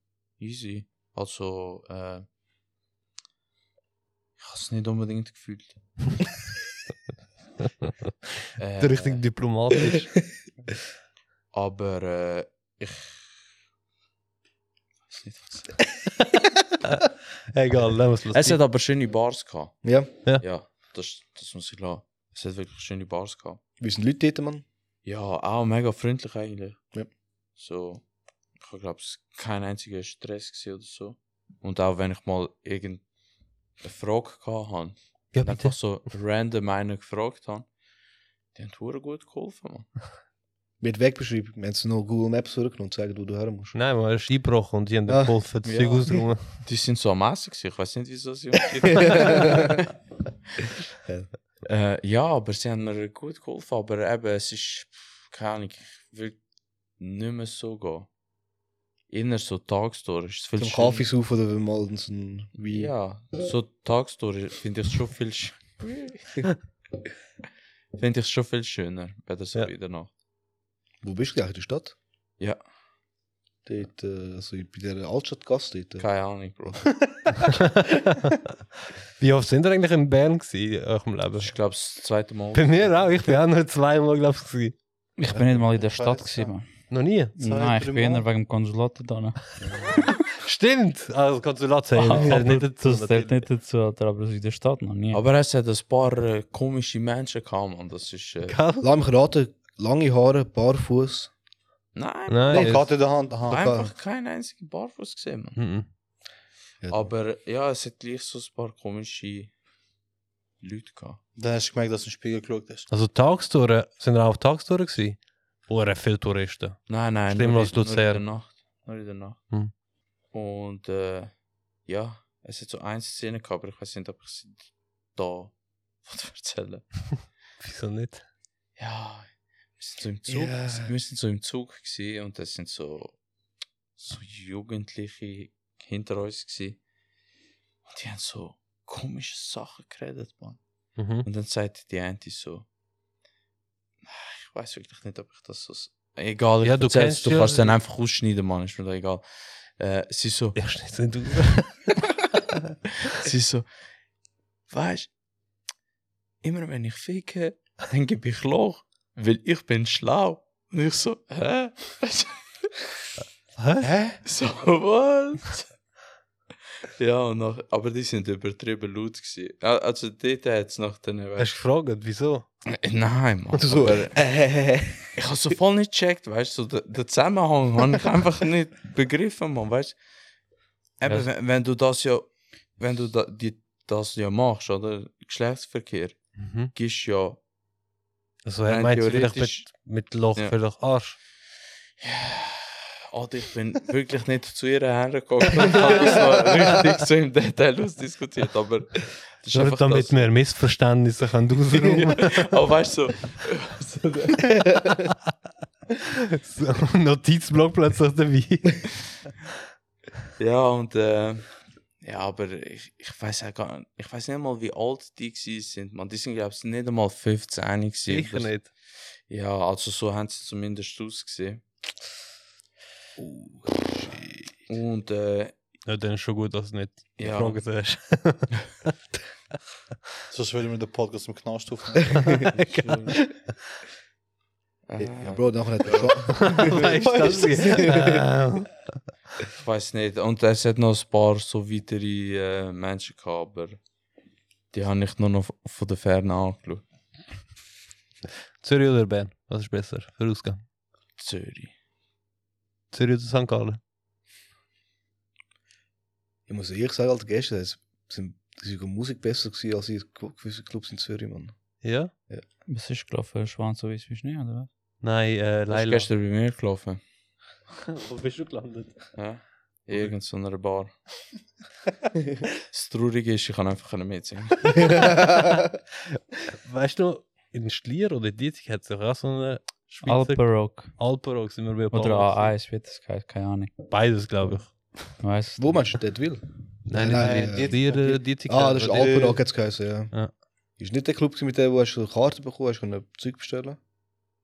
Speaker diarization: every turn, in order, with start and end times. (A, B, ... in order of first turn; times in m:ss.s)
0:00.4-0:02.2 A
0:04.4-0:05.8 A
0:08.6-0:09.2 A
0:08.8-0:10.1 B
0:11.5-0:13.4 A
0:15.1-0:15.8 A
0:16.8-0:18.6 B
0:18.3-0:23.6 A
0:19.8-0:20.1 C
0:23.8-0:24.6 C
0:25.0-0:26.9 A
0:27.6-0:28.0 A
0:28.6-0:33.0 A
0:33.8-0:37.7 A
0:35.3-0:35.8 B
0:38.5-0:39.9 A
0:40.8-0:43.7 C
0:43.7-0:46.4 B
0:45.1-0:45.4 C
0:45.6-0:49.9 A
0:49.0-0:49.8 C
0:51.6-0:56.4 A
0:57.0-0:58.1 A
0:59.1-1:01.1 A
1:00.6-1:02.9 C
1:02.7-1:06.3 A
1:07.9-1:10.1 A
1:11.0-1:11.9 C
1:13.6-1:16.0 C
1:16.0-1:16.9 A
1:17.6-1:18.3 B
1:19.2-1:21.6 B
1:21.4-1:23.2 A
1:22.5-1:24.8 B
1:25.2-1:26.8 D
1:25.5-1:26.5 E
1:26.9-1:27.3 B
1:27.3-1:30.0 D
1:27.4-1:28.2 E
1:30.3-1:33.4 B
1:31.9-1:35.2 D
1:35.1-1:38.6 A
1:38.5-1:38.8 B
1:38.8-1:41.3 C
1:41.9-1:42.8 A
1:42.3-1:42.8 B
1:42.5-1:43.6 E
1:43.4-1:43.9 C
1:43.5-1:45.6 A
1:45.6-1:45.8 B
1:46.8-1:47.1 C
1:46.9-1:49.5 A
1:50.6-1:51.2 A
1:51.4-1:52.9 E
1:52.9-1:58.2 B
1:56.9-1:59.4 A
2:00.3-2:01.3 A
2:01.8-2:06.8 A
2:07.6-2:08.2 B
2:08.8-2:13.1 A
2:10.3-2:10.9 C
2:14.0-2:16.8 A
2:17.9-2:20.6 A
2:21.0-2:21.3 B
2:21.2-2:22.6 A
2:24.0-2:30.6 A
2:26.6-2:27.8 B
2:30.6-2:31.9 B
2:33.0-2:33.7 A
2:34.7-2:35.1 A
2:36.4-2:42.4 A
2:43.6-2:43.9 B
2:43.8-2:44.2 E
2:44.2-2:45.7 A
2:47.0-2:51.6 A
2:51.4-2:52.4 B
2:52.6-2:54.2 A
2:53.6-2:55.1 C
2:55.2-3:00.0 A
3:01.0-3:07.4 A
3:06.4-3:06.7 B
3:08.4-3:11.2 B
3:08.6-3:10.5 A
3:12.0-3:20.3 A
3:19.5-3:22.4 B
3:21.9-3:24.6 A
3:26.2-3:28.9 B
3:30.4-3:31.5 A
3:32.0-3:38.7 A
3:38.1-3:38.7 B
3:39.3-3:41.6 A
3:43.2-3:44.3 C
3:44.7-3:45.5 A
3:45.9-3:48.9 B
3:47.2-3:47.6 A
3:50.3-3:52.4 E
3:52.4-3:53.4 B
3:54.9-3:56.8 A
3:55.0-3:56.8 C
3:56.4-3:58.8 B
3:57.0-3:57.9 E
3:59.6-4:03.8 A
4:04.7-4:06.8 A
4:08.6-4:10.6 B
4:11.2-4:11.7 A
4:12.9-4:13.8 B
4:16.5-4:21.5 C
4:21.8-4:22.1 B
4:22.6-4:24.7 D
4:25.0-4:26.1 B
4:25.7-4:27.0 A
4:27.9-4:29.1 B
4:29.1-4:30.9 A
4:32.7-4:35.1 A
4:34.8-4:35.6 B
4:36.5-4:42.5 B
4:40.0-4:41.0 D
4:41.9-4:43.7 D
4:43.9-4:44.7 B
4:45.2-4:46.0 D
4:45.6-4:50.1 C
4:46.8-4:49.2 B
4:47.1-4:48.2 E
4:48.8-4:49.4 E
4:50.8-4:53.8 C